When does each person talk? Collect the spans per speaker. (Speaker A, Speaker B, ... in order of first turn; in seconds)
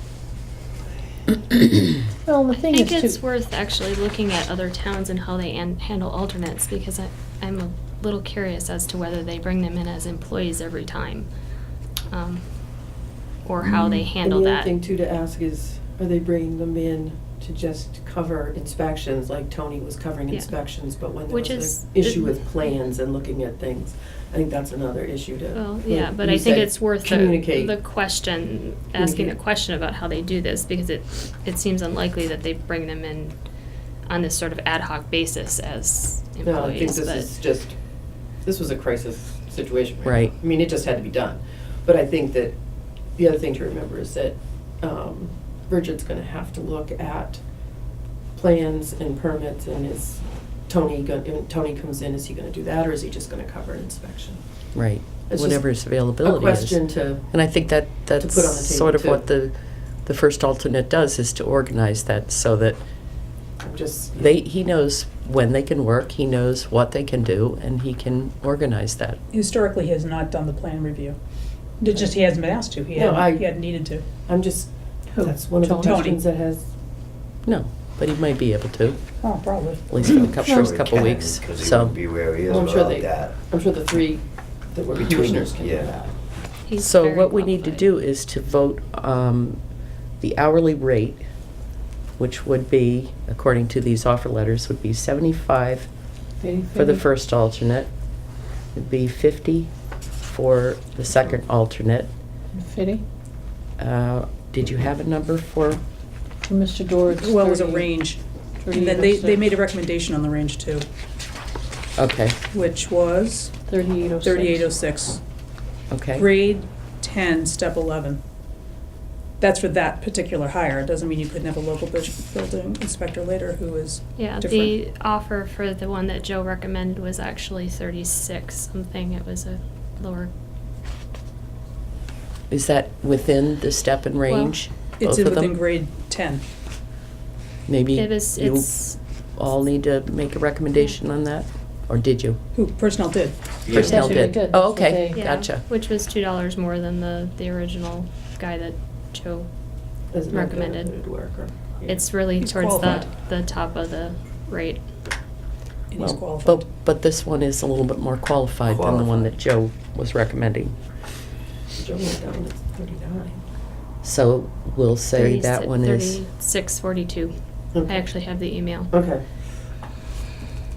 Speaker A: 2.2-3.2, 75.1-76.0, 96.4-97.0, 102.5-103.0, 106.4-108.0, 108.6-109.4, 113.7-114.7, 143.9-145.2
Speaker B: 2.5-11.3, 12.1-12.4, 13.4-14.7, 21.3-22.3, 25.5-33.3, 34.0-37.3, 86.7-87.8, 124.2-130.3, 134.3-134.6, 137.9-139.0, 143.8-144.2, 145.1-149.5, 150.3-150.9, 151.9-154.8, 165.1-168.9
Speaker C: 13.6-27.7, 28.9-29.4, 36.5-37.8, 38.4-42.5, 43.2-47.4, 48.3-54.4, 55.3-57.3, 58.2-59.3, 63.6-64.4, 72.9-73.6, 74.3-74.7, 75.2-76.7, 82.5-86.1, 150.1-152.1, 161.7-163.4, 167.7-168.1, 168.9-169.2
Speaker D: 40.0-40.3, 54.7-59.5, 60.0-62.8, 64.1-69.2, 77.4-79.2, 79.9-82.0, 86.8-89.6, 90.2-91.2, 92.2-95.9, 96.7-97.9, 98.7-99.7, 100.2-102.1, 103.8-105.8, 112.0-112.4, 115.9-116.2, 132.5-135.6, 137.7-142.4, 143.7-145.6, 156.0-160.8, 164.0-166.2
Speaker E: 69.3-71.2, 71.8-74.0, 75.7-76.2, 79.2-79.9, 107.1-110.9, 112.5-113.5, 114.2-115.2, 116.2-118.2, 119.4-124.8, 135.0-136.4, 142.5-143.4, 152.4-153.1, 155.9-156.7
Speaker F: 80.1-83.3, 84.9-86.0, 143.7-144.2, 158.7-159.3